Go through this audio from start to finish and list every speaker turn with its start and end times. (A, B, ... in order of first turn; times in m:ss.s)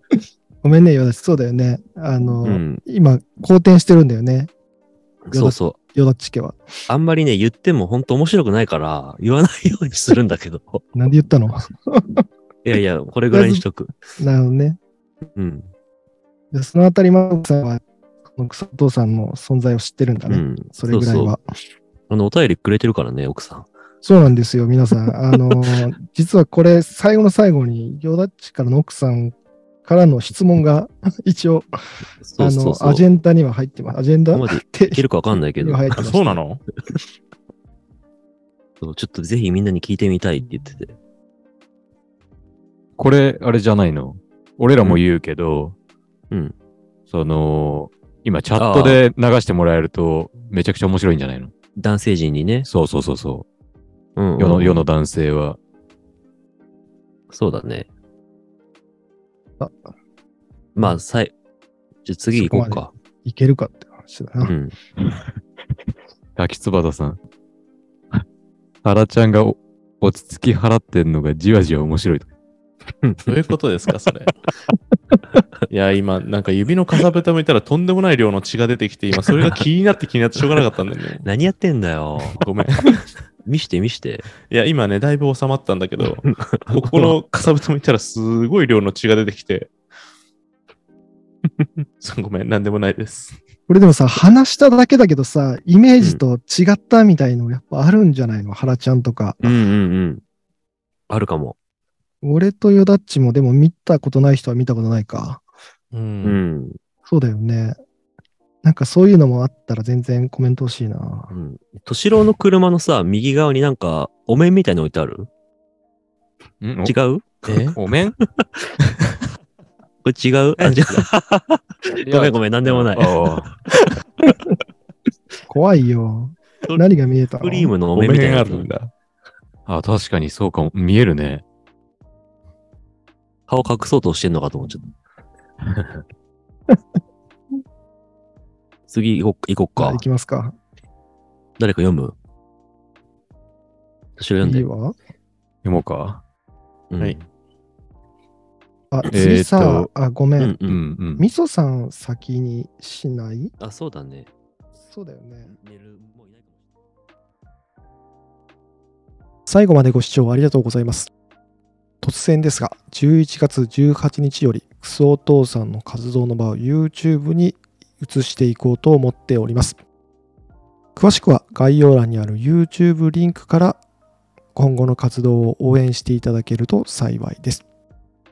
0:00.6-0:04.5 A
0:02.4-0:02.8 B
0:05.2-0:05.8 B
0:05.3-0:06.6 A
0:06.9-0:10.8 B
0:10.9-0:12.2 A
0:12.6-0:14.1 B
0:13.3-0:14.8 A
0:15.4-0:15.7 B
0:16.5-0:21.4 A
0:20.3-0:21.4 B
0:22.1-0:23.7 B
0:24.0-0:31.7 A
0:32.2-0:33.0 B
0:32.4-0:36.4 A
0:34.3-0:36.0 B
0:36.0-0:36.6 C
0:38.8-0:40.9 B
0:43.0-0:45.8 D
0:47.1-0:51.5 D
0:48.6-0:49.0 B
0:51.8-0:52.7 B
0:52.6-0:53.4 D
0:54.2-0:54.8 B
0:54.4-0:55.6 D
0:57.3-0:57.9 B
0:59.6-0:59.8 A
1:00.8-1:01.3 B
1:02.0-1:02.9 B
1:02.3-1:04.5 A
1:04.4-1:04.7 B
1:05.0-1:05.2 D
1:06.4-1:07.2 D
1:08.8-1:12.3 D
1:13.0-1:13.3 B
1:13.2-1:14.3 C
1:15.7-1:21.2 C
1:21.2-1:22.4 B
1:22.4-1:23.0 C
1:23.4-1:24.3 B
1:24.5-1:29.7 C
1:26.5-1:27.1 B
1:32.0-1:33.4 C
1:33.7-1:39.6 A
1:39.4-1:40.2 B
1:41.1-1:41.6 B
1:42.2-1:45.4 A
1:45.9-1:46.4 C
1:46.2-1:46.8 B
1:47.0-1:47.8 A
1:48.6-1:51.3 A
1:51.3-1:55.3 B
1:56.6-1:56.9 D
1:56.8-1:57.4 B
1:57.4-1:57.8 C
1:57.4-1:58.2 D
1:58.4-1:58.7 B
2:00.0-2:03.2 B
2:00.6-2:01.0 C
2:01.9-2:03.5 D
2:05.5-2:07.7 A
2:07.4-2:08.7 B
2:07.9-2:08.9 C
2:09.7-2:11.4 D
2:13.5-2:14.9 B
2:18.9-2:20.0 B
2:19.8-2:20.5 A
2:21.6-2:22.1 B
2:24.2-2:24.7 B
2:24.4-2:25.0 A
2:25.6-2:26.2 D
2:26.9-2:27.2 B
2:28.9-2:30.6 A
2:29.1-2:29.9 D
2:30.4-2:30.8 B
2:30.7-2:31.2 D
2:31.2-2:33.5 A
2:33.6-2:34.3 B
2:34.8-2:35.5 A
2:35.4-2:36.6 B
2:39.4-2:41.1 A
2:42.0-2:49.8 A
2:51.0-2:53.8 A
2:54.5-2:57.6 A